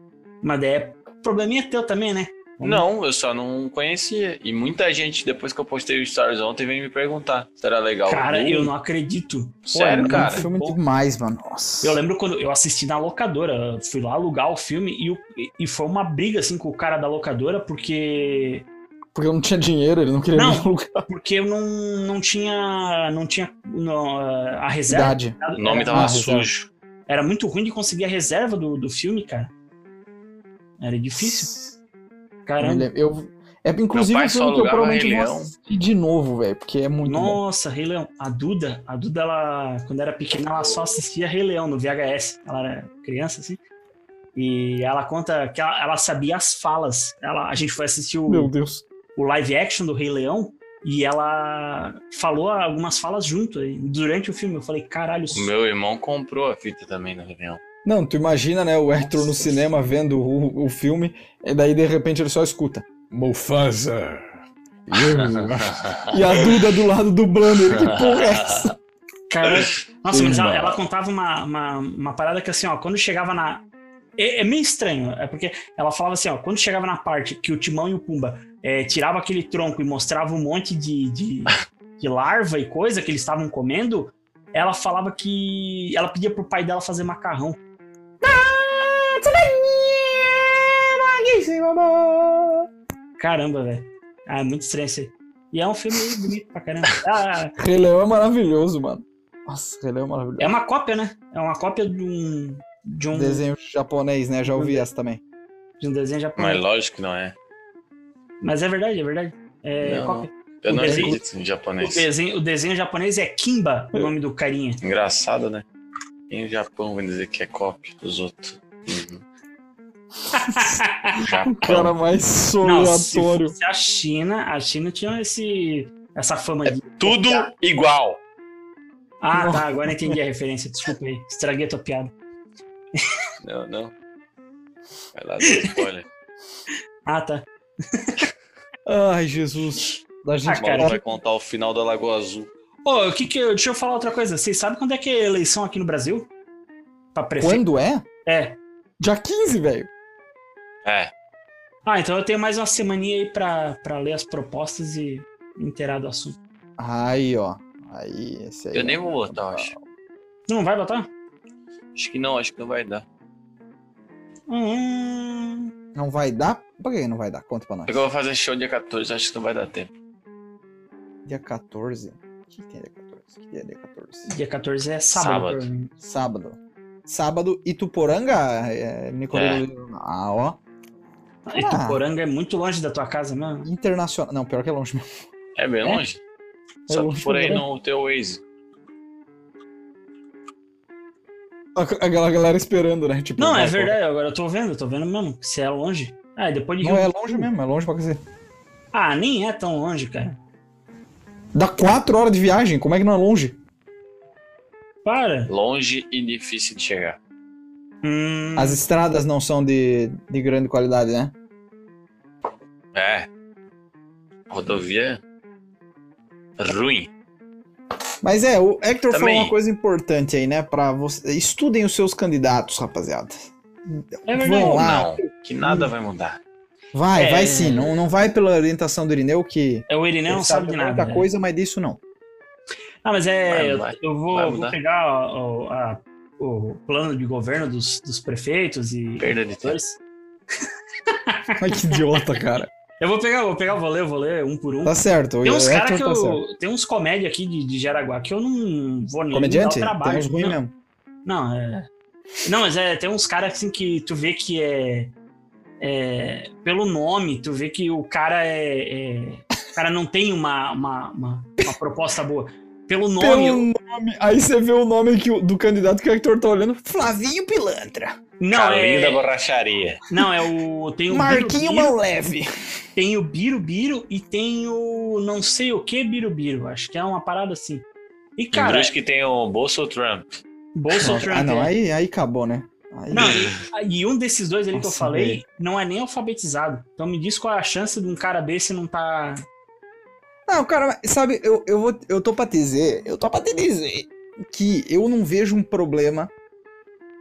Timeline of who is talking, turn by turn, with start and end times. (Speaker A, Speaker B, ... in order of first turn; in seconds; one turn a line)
Speaker A: 0.4-2.8
Speaker B: 2.6-8.7
Speaker A: 8.1-10.8
Speaker B: 9.7-10.4
Speaker C: 10.0-12.0
Speaker A: 11.8-18.6
Speaker C: 19.1-21.1
Speaker A: 20.3-26.2
Speaker C: 24.9-25.4
Speaker B: 25.6-26.7
Speaker C: 25.9-26.5
Speaker A: 27.1-29.5
Speaker A: 30.8-31.5
Speaker C: 31.2-31.7
Speaker A: 32.5-32.9
Speaker C: 32.6-37.4
Speaker B: 33.9-35.5
Speaker A: 37.0-43.6
Speaker A: 44.3-48.5
Speaker C: 48.3-48.8
Speaker A: 49.1-55.5
Speaker B: 55.3-57.6
Speaker C: 57.8-64.2
Speaker A: 59.0-59.6
Speaker B: 64.9-66.4
Speaker C: 64.9-68.8
Speaker B: 67.7-68.7
Speaker A: 69.3-73.6
Speaker C: 70.1-70.8
Speaker A: 74.2-87.6
Speaker C: 88.2-92.7
Speaker A: 93.2-97.5
Speaker C: 97.6-100.5
Speaker A: 100.4-103.4
Speaker C: 103.1-105.2
Speaker A: 104.5-104.9
Speaker A: 105.8-106.6
Speaker B: 106.4-107.3
Speaker A: 108.4-111.2
Speaker B: 109.8-112.1
Speaker C: 110.7-111.2
Speaker A: 111.8-114.8
Speaker B: 114.8-115.6
Speaker B: 116.3-119.2
Speaker A: 120.3-121.2
Speaker B: 121.2-121.9
Speaker C: 121.3-123.5
Speaker A: 122.6-127.5
Speaker B: 126.6-128.2
Speaker A: 129.2-132.1
Speaker C: 129.3-130.2
Speaker B: 133.4-133.9
Speaker B: 135.1-136.1
Speaker A: 137.1-138.2
Speaker C: 138.8-141.0
Speaker A: 140.4-141.0
Speaker B: 140.5-142.5
Speaker A: 142.8-146.3
Speaker A: 147.1-147.6
Speaker C: 147.4-148.1
Speaker A: 148.2-148.6
Speaker C: 149.0-149.9
Speaker B: 150.8-151.1
Speaker A: 151.8-156.4
Speaker C: 156.8-159.8
Speaker B: 158.7-159.7
Speaker A: 160.5-161.1
Speaker B: 161.9-163.0
Speaker A: 164.5-165.7
Speaker C: 165.9-168.0
Speaker B: 167.9-169.9
Speaker C: 171.2-174.3
Speaker A: 174.3-175.9
Speaker B: 175.1-175.7
Speaker C: 176.0-180.6
Speaker B: 179.3-179.6
Speaker A: 181.5-183.7
Speaker C: 181.6-182.0
Speaker C: 183.6-185.1
Speaker B: 185.6-186.2
Speaker C: 186.9-187.6
Speaker B: 186.9-188.4
Speaker C: 191.7-194.0
Speaker A: 193.4-197.5
Speaker C: 196.8-198.2
Speaker A: 198.9-200.4
Speaker C: 201.5-203.6
Speaker A: 205.0-205.5
Speaker B: 205.5-207.2
Speaker A: 208.0-208.8
Speaker C: 208.6-211.3
Speaker B: 212.9-213.3
Speaker B: 214.5-215.2
Speaker B: 216.6-217.1
Speaker C: 218.2-223.5
Speaker B: 219.1-219.5
Speaker C: 224.2-225.9
Speaker A: 224.2-224.9
Speaker B: 224.7-226.4
Speaker C: 226.9-232.0
Speaker A: 227.1-227.9
Speaker A: 229.9-231.3
Speaker A: 233.0-240.0
Speaker B: 233.5-234.8
Speaker B: 239.2-239.8
Speaker A: 241.1-241.9
Speaker C: 241.6-242.7
Speaker A: 243.0-250.6
Speaker C: 244.8-246.4
Speaker C: 249.3-250.7
Speaker A: 251.2-251.9
Speaker A: 252.4-255.1
Speaker A: 255.8-263.7
Speaker C: 263.2-268.2
Speaker A: 268.4-269.2
Speaker B: 268.5-270.0
Speaker A: 270.1-271.9
Speaker C: 271.1-272.5
Speaker A: 272.9-277.8
Speaker A: 278.4-278.9
Speaker B: 278.5-280.3
Speaker A: 280.7-281.7
Speaker C: 280.9-283.5
Speaker A: 283.1-289.4
Speaker B: 283.1-283.6
Speaker C: 284.7-285.4
Speaker C: 290.5-296.3